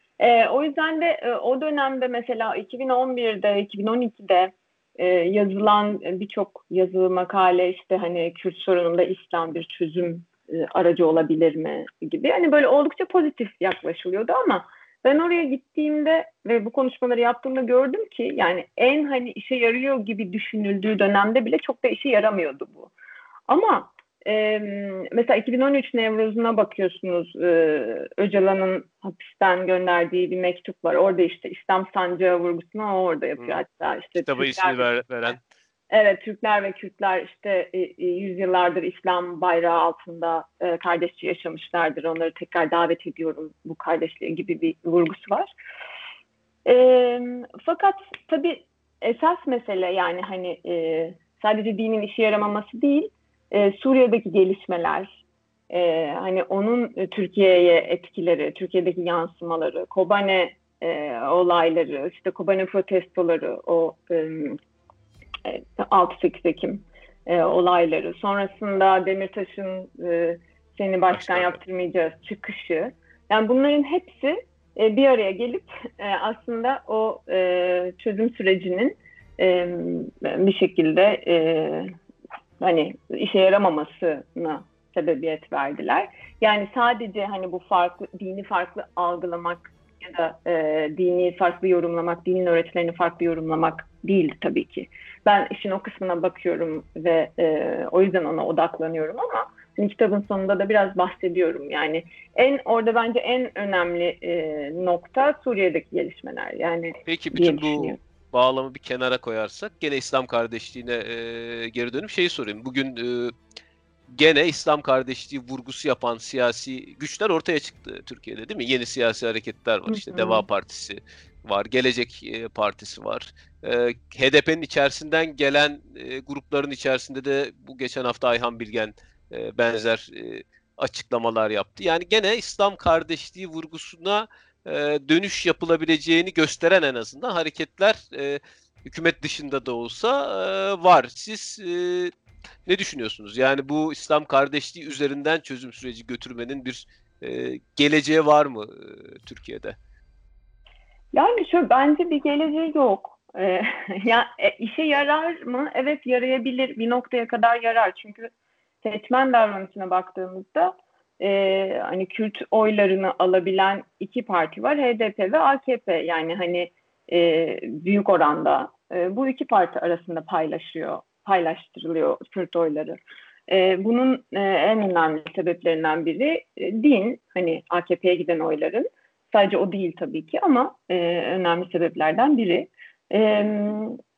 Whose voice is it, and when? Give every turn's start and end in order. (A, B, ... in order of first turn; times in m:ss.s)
0:00.2-0:22.9 A
0:23.5-0:34.9 A
0:34.2-0:35.4 B
0:35.9-0:45.5 A
0:46.6-0:55.2 A
0:55.7-1:04.6 A
1:05.4-1:21.9 A
1:11.1-1:11.6 B
1:22.6-1:48.0 A
1:47.0-1:53.3 B
1:54.1-2:22.1 B
1:59.9-2:00.4 A
2:22.6-2:29.8 B
2:31.1-2:38.3 A
2:38.8-3:04.0 A